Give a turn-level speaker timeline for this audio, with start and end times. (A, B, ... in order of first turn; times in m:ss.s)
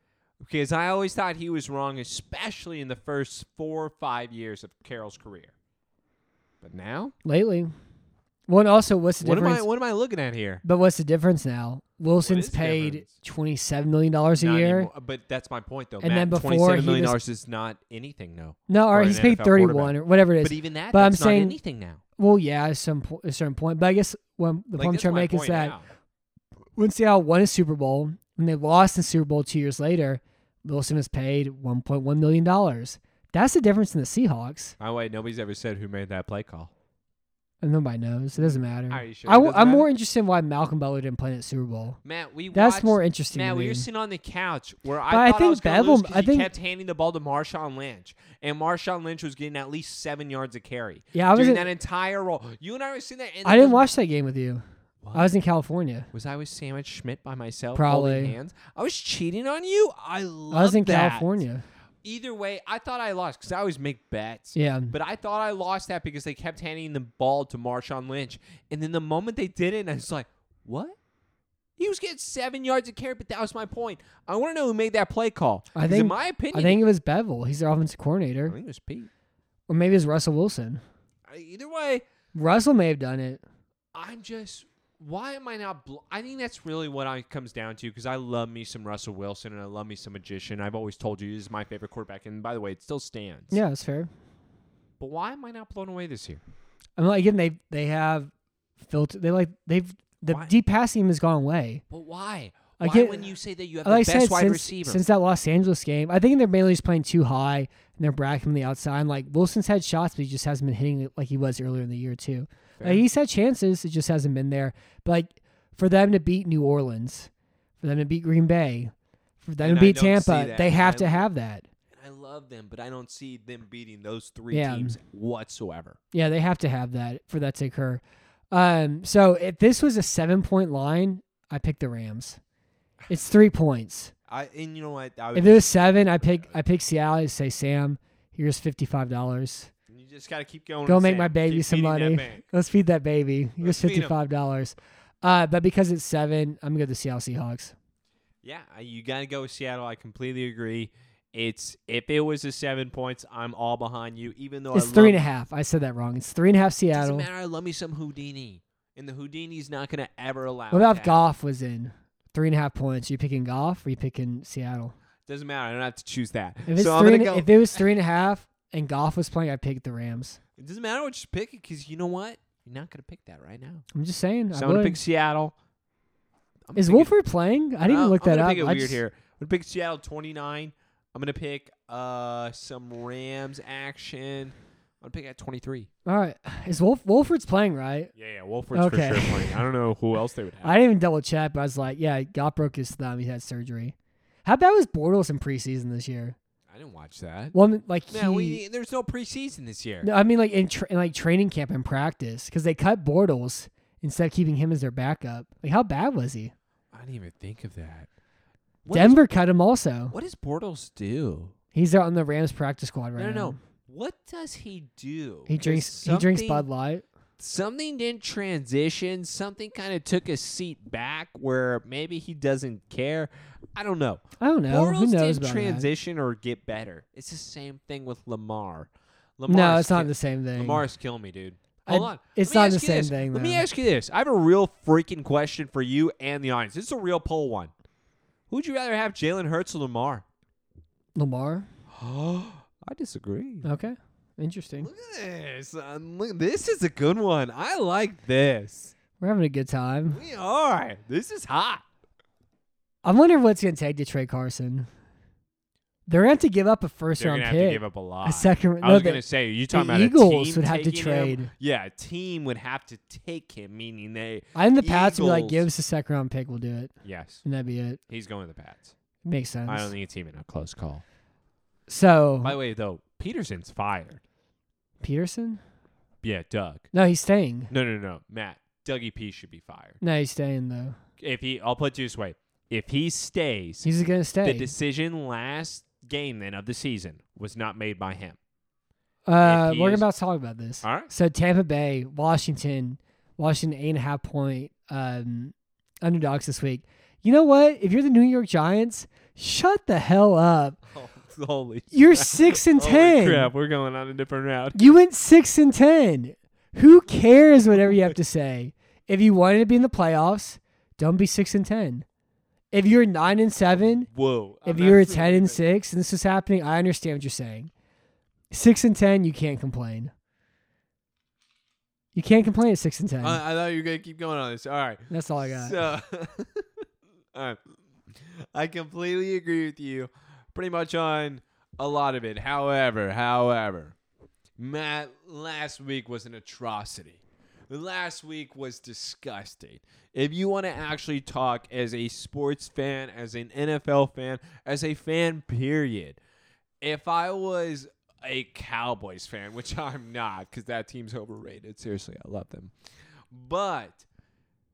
0:00.4-0:05.5 A
0:06.6-0:07.1 A
0:07.2-0:07.7 B
0:08.5-0:09.6 B
0:09.2-0:10.6 A
0:10.6-0:14.9 B
0:12.2-0:13.1 A
0:14.4-0:22.0 A
0:16.0-0:17.2 B
0:18.7-0:21.6 B
0:22.2-0:25.8 B
0:24.8-0:25.8 A
0:26.8-0:34.7 B
0:34.8-0:36.7 A
0:37.6-0:42.0 B
0:38.4-0:39.9 A
0:42.0-0:53.9 A
0:42.5-0:43.9 B
0:45.1-0:46.5 B
0:51.1-0:51.7 B
0:53.4-0:54.6 B
0:55.0-0:55.3 A
0:55.1-0:56.1 B
0:56.1-1:01.4 A
0:57.7-0:58.3 B
1:00.5-1:01.6 B
1:02.0-1:11.0 A
1:04.5-1:04.9 B
1:11.8-1:16.8 A
1:15.7-1:18.6 B
1:18.5-1:19.1 A
1:19.7-1:20.8 B
1:21.3-1:22.0 A
1:22.3-1:23.4 B
1:23.9-1:33.6 A
1:33.5-1:34.1 B
1:35.0-1:36.4 A
1:37.0-1:41.8 B
1:40.3-1:40.5 A
1:41.9-1:45.0 A
1:42.8-1:43.3 B
1:43.8-2:01.6 B
1:52.8-1:53.0 A
1:59.6-2:01.3 A
2:01.9-2:06.0 A
2:04.5-2:05.0 B
2:06.1-2:12.4 B
2:13.1-2:14.1 B
2:14.3-2:16.6 A
2:15.3-2:19.7 B
2:19.9-2:22.4 A
2:20.8-2:27.7 B
2:23.6-2:24.1 A
2:28.4-2:35.2 A
2:34.7-2:37.3 B
2:36.9-2:41.2 A
2:40.7-2:44.9 B
2:45.2-2:47.8 A
2:46.7-2:50.4 B
2:50.6-2:53.8 A
2:53.9-2:55.0 B
2:54.5-2:55.5 A
2:56.7-2:57.1 A
2:56.8-2:59.0 B
2:57.8-3:05.9 A
3:06.0-3:08.1 B
3:08.1-3:10.7 A
3:08.7-3:09.6 B
3:10.6-3:16.4 B
3:16.7-3:17.5 A
3:17.5-3:18.6 B
3:18.1-3:20.1 A
3:20.0-3:26.5 B
3:26.9-3:28.1 A
3:28.8-3:29.2 A
3:28.9-3:30.1 B
3:30.1-3:31.5 A
3:31.7-3:33.6 B
3:33.2-3:36.6 A
3:35.5-3:37.0 B
3:37.4-3:57.7 A
3:44.4-3:45.9 B
3:49.5-3:50.8 B
3:51.9-3:53.6 B
3:58.5-4:00.2 A
4:01.2-4:01.7 B
4:01.9-4:03.7 A
4:03.6-4:04.9 B
4:04.8-4:08.9 A
4:09.2-4:10.2 B
4:10.1-4:11.8 A
4:13.0-4:14.9 B
4:16.1-4:21.5 B
4:17.2-4:25.7 A
4:24.5-4:26.9 B
4:27.0-4:27.4 A
4:27.4-4:28.0 B
4:28.1-4:28.9 A
4:29.2-4:29.9 B
4:29.7-4:31.0 A
4:31.9-4:32.5 B
4:32.4-4:34.2 A
4:35.0-4:35.6 B
4:36.2-4:36.9 A
4:36.9-4:37.7 B
4:37.7-4:40.0 A
4:40.0-4:41.0 B
4:41.2-4:43.9 A
4:43.8-4:44.7 B
4:44.4-4:48.4 A
4:49.3-5:00.8 B
4:49.4-4:50.0 A
4:50.8-4:51.1 A
5:00.9-5:04.9 A
5:01.9-5:03.5 B
5:04.7-5:12.0 B
5:12.7-5:14.1 B
5:13.8-5:15.6 A
5:14.6-5:17.7 B
5:18.5-5:20.1 B
5:22.1-5:23.4 B
5:23.2-5:33.9 A
5:25.1-5:25.8 B
5:34.6-5:46.2 A
5:46.8-5:52.7 A
5:53.3-5:54.0 A